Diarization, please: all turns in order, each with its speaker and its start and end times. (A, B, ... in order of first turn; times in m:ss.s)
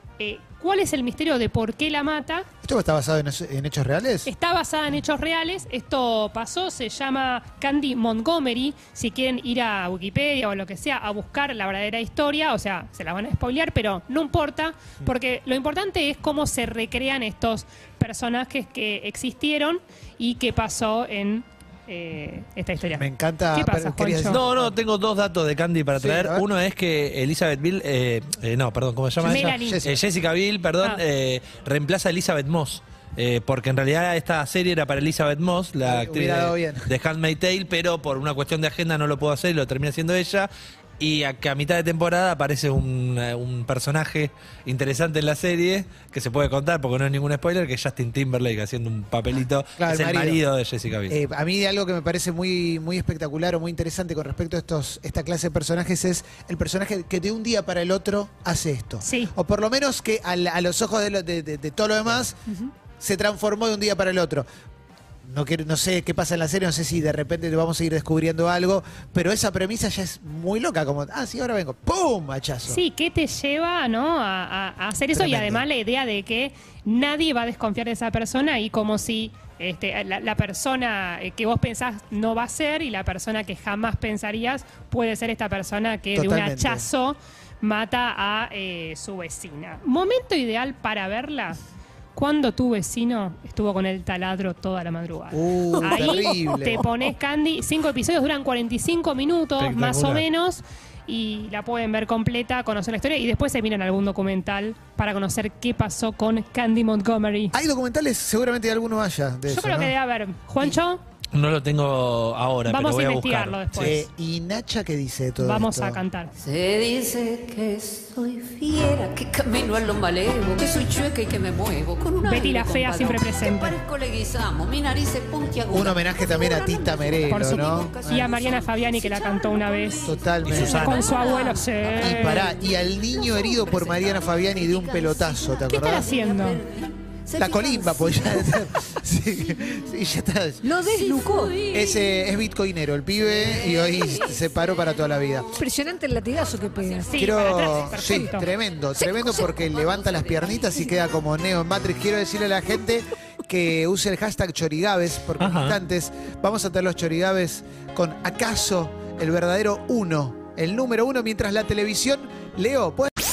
0:00.2-0:02.5 A
0:02.6-0:04.3 B
0:04.3-0:24.4 A
0:22.9-0:24.8 B
0:24.3-0:40.5 C
0:26.0-0:26.4 B
0:29.2-0:30.0 B
0:29.2-0:29.8 A
0:35.9-0:36.9 B
0:41.0-0:51.2 C
0:49.3-0:50.4 B
0:51.1-1:02.4 B
0:59.0-0:59.3 A
1:03.0-1:04.5 B
1:05.2-1:12.8 B
1:12.7-1:31.6 A
1:15.1-1:15.6 B
1:26.1-1:26.9 B
1:32.2-1:47.6 A
1:35.3-1:36.9 B
1:39.6-1:40.3 C
1:47.5-1:50.0 B
1:49.5-1:51.0 A
1:51.3-1:54.0 C
1:52.7-1:54.1 A
1:53.8-1:56.0 B
1:55.4-1:56.4 A
1:56.4-2:18.7 D
2:02.2-2:03.8 A
2:05.7-2:08.3 B
2:07.3-2:12.6 A
2:10.0-2:11.0 B
2:10.4-2:11.0 C
2:11.9-2:16.1 B
2:15.7-2:16.6 A
2:17.4-2:20.8 B
2:20.6-2:21.6 E
2:21.0-2:22.3 D
2:21.7-2:25.5 B
2:23.2-2:25.5 D
2:25.5-2:27.2 E
2:27.1-2:28.5 A
2:27.2-2:43.1 B
2:28.0-2:28.3 E
2:29.0-2:30.6 D
2:35.4-2:35.8 C